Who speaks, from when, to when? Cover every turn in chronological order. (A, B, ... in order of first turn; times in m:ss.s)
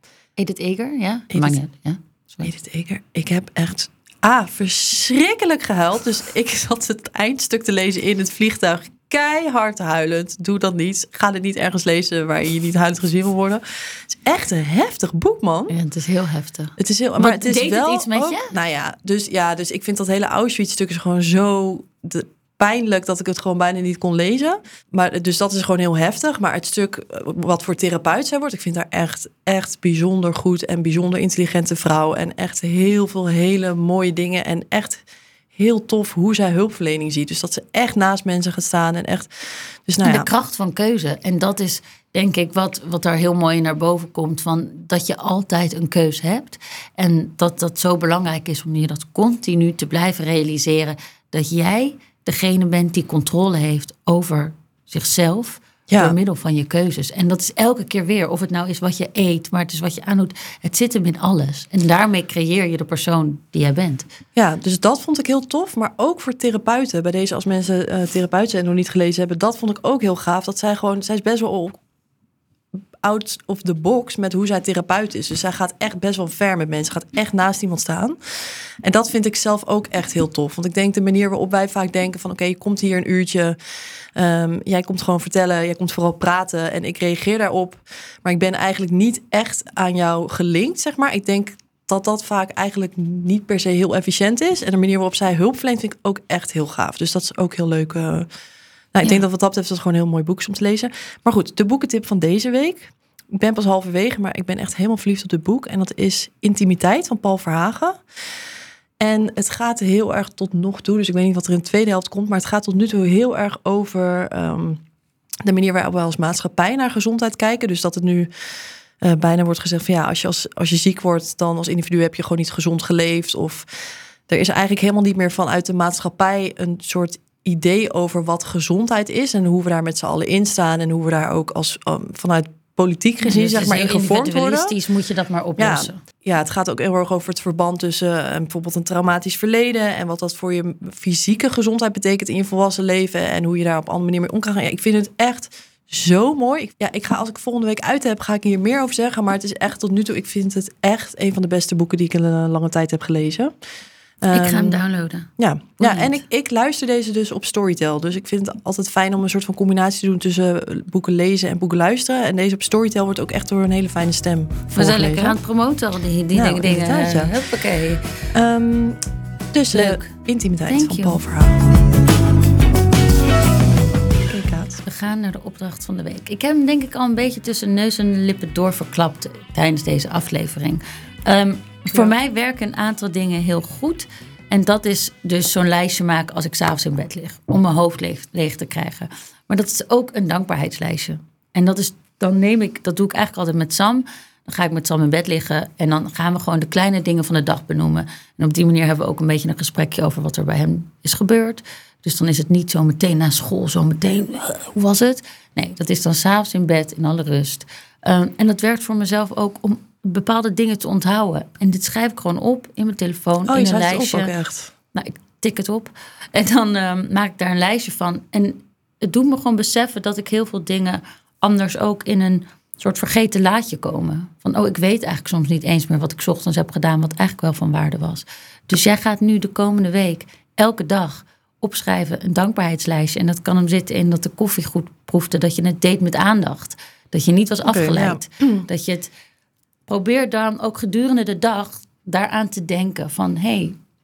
0:00.4-0:02.5 A
0:01.3-0:01.6 B
0:02.4-0:15.8 B
0:15.7-0:18.5 A
0:16.8-0:35.0 B
0:35.6-0:40.3 B
0:40.0-1:04.1 A
0:55.9-0:56.2 B
1:04.4-1:11.8 B
1:13.0-1:18.2 B
1:18.8-1:23.6 B
1:24.2-1:38.3 B
1:38.9-1:48.0 B
1:49.0-1:54.8 B
1:55.4-1:58.3 B
1:59.0-2:03.7 B
2:04.3-2:14.8 B
2:13.2-2:16.0 A
2:15.6-2:33.5 B
2:34.2-2:34.8 B
2:34.3-2:36.2 A
2:35.4-2:45.4 B
2:44.8-2:48.0 A
2:46.3-2:47.3 B
2:48.3-2:49.0 B
2:49.5-2:51.8 B
2:49.7-2:50.1 A
2:50.7-2:51.2 A
2:54.2-2:54.8 B
2:54.8-3:34.3 A
3:33.5-3:34.7 B
3:34.9-3:59.1 A
3:57.6-3:58.7 B
3:59.9-4:03.8 A